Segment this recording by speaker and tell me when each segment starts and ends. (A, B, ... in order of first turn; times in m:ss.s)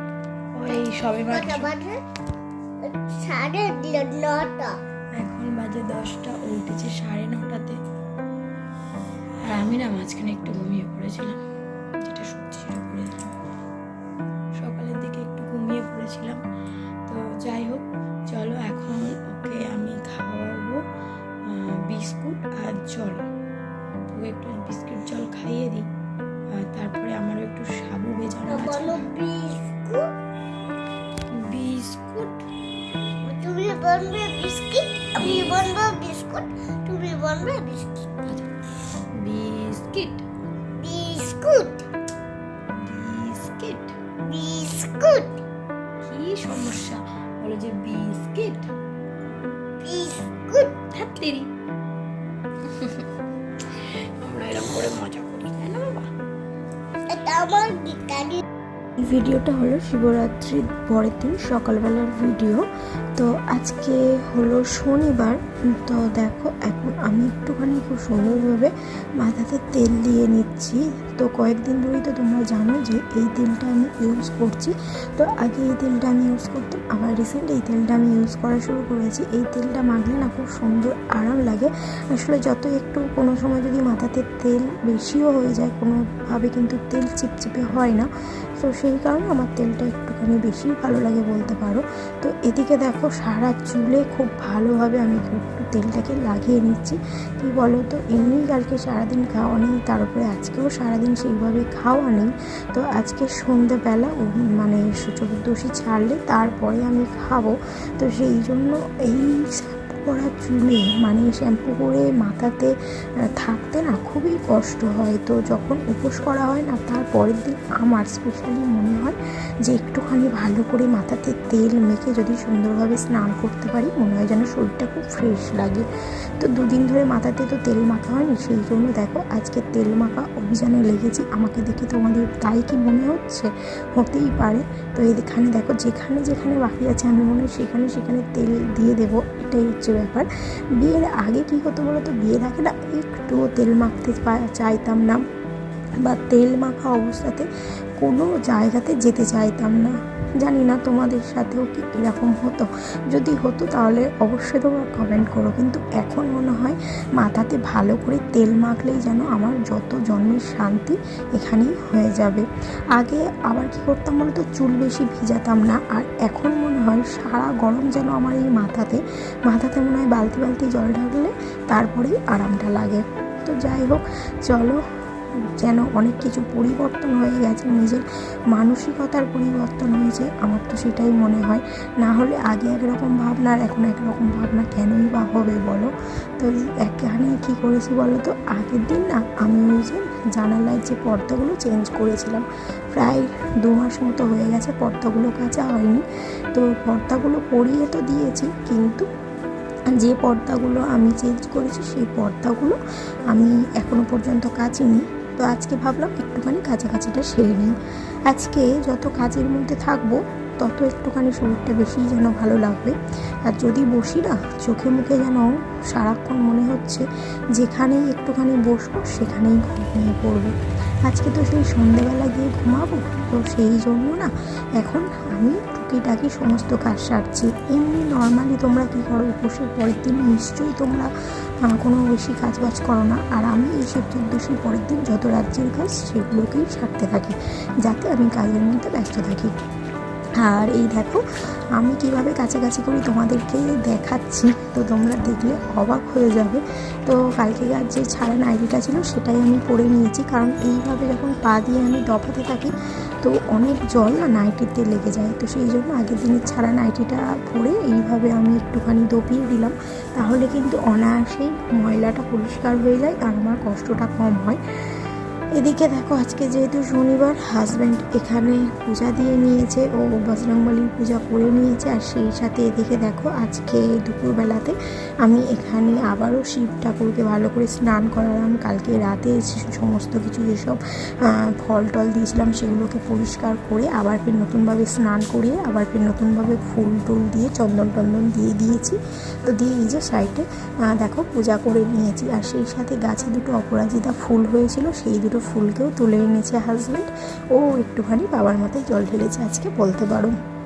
0:00.6-0:01.7 A
0:01.3-0:02.0 B
0:02.8-0:04.7 B
0:05.2-0:07.8 A
0:09.5-0:11.4 A
0:12.0-0:13.4 A
0:14.6-0:16.4 A
0:17.1-0:20.8 A
0:21.5-0:23.2 A
0:24.1-0:25.9 A
0:26.6-0:29.1 A
0:28.5-0:30.0 B
0:31.3-0:32.4 A
0:33.3-0:37.9 B
0:35.2-0:35.7 A
0:38.2-0:38.5 A
0:39.1-0:40.3 A
0:40.8-0:41.8 B
0:42.7-0:43.9 A
0:44.3-0:45.4 B
0:46.0-0:48.7 A
0:49.8-0:50.8 B
0:50.9-0:51.5 A
0:52.7-0:53.0 A
0:54.2-0:56.1 A
0:57.1-0:58.4 B
0:59.0-1:02.6 C
1:03.2-1:52.7 C
1:53.4-2:05.9 C
2:06.4-2:25.2 C
2:26.0-2:27.5 C
2:28.0-2:54.8 C
2:55.6-3:19.1 C
3:20.0-3:22.8 C
3:23.3-3:27.7 C
3:28.3-3:37.0 C
3:37.6-3:40.6 C
3:41.1-3:51.1 C
3:51.6-3:59.5 C
4:00.4-4:01.2 C
4:01.8-4:24.6 C
4:25.6-5:00.3 C